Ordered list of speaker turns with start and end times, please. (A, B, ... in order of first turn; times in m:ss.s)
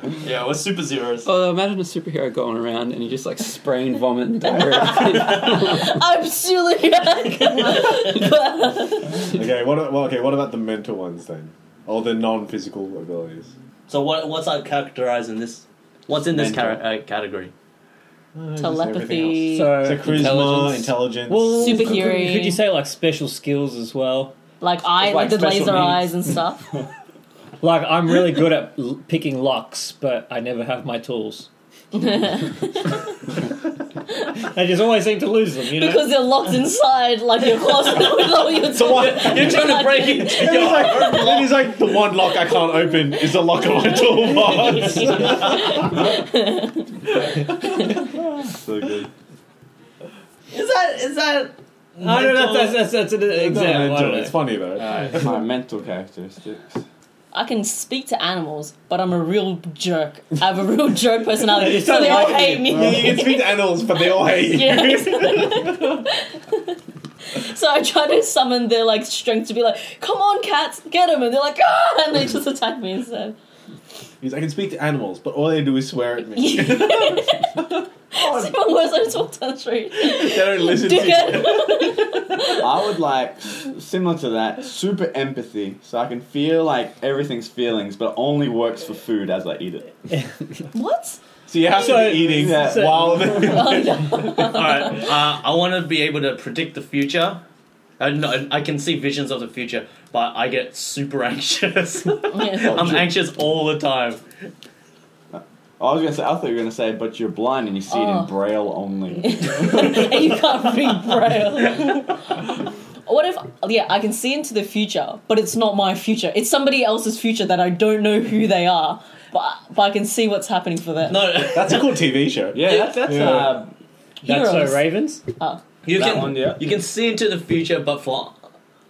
0:00.2-0:01.3 A
0:01.2-0:05.9 B
0:05.2-0:09.3 C
0:09.2-0:13.5 D
0:13.9-0:17.5 A
0:16.1-0:16.8 E
0:18.3-0:22.1 D
0:18.6-0:19.8 C
0:19.5-0:20.6 F
0:20.0-0:20.9 B
0:21.3-0:24.4 F
0:21.6-0:22.6 C
0:24.6-0:26.7 C
0:25.0-0:26.1 E
0:27.6-0:31.5 F
0:31.9-0:33.0 C
0:34.4-0:36.1 F
0:35.7-0:41.2 C
0:38.6-0:39.7 D
0:38.7-0:41.7 A
0:40.3-0:46.1 D
0:42.8-0:46.9 C
0:44.4-0:45.8 A
0:47.2-0:47.9 D
0:48.0-0:49.1 E
0:50.5-0:52.8 A
0:52.0-0:54.4 F
0:53.3-0:55.4 D
0:54.8-0:55.3 A
0:55.1-0:56.8 E
0:57.3-1:06.8 C
1:01.5-1:06.0 D
1:07.3-1:13.4 C
1:14.2-1:17.3 D
1:16.3-1:22.8 C
1:18.1-1:18.5 E
1:19.9-1:22.4 D
1:22.6-1:29.9 E
1:30.7-1:31.2 C
1:31.5-1:34.2 D
1:31.7-1:33.4 F
1:32.1-1:33.5 E
1:33.3-1:35.1 C
1:34.3-1:37.4 A
1:38.0-1:44.2 A
1:42.3-1:42.9 C
1:42.6-1:43.1 E
1:45.3-1:50.3 E
1:47.9-1:48.3 C
1:49.2-1:52.5 C
1:51.7-1:51.9 A
1:53.0-2:01.3 C
2:01.0-2:02.1 A
2:01.4-2:03.5 D
2:02.5-2:03.7 E
2:02.6-2:03.5 A
2:04.2-2:05.2 F
2:04.2-2:04.9 C
2:05.8-2:08.4 A
2:05.9-2:06.7 E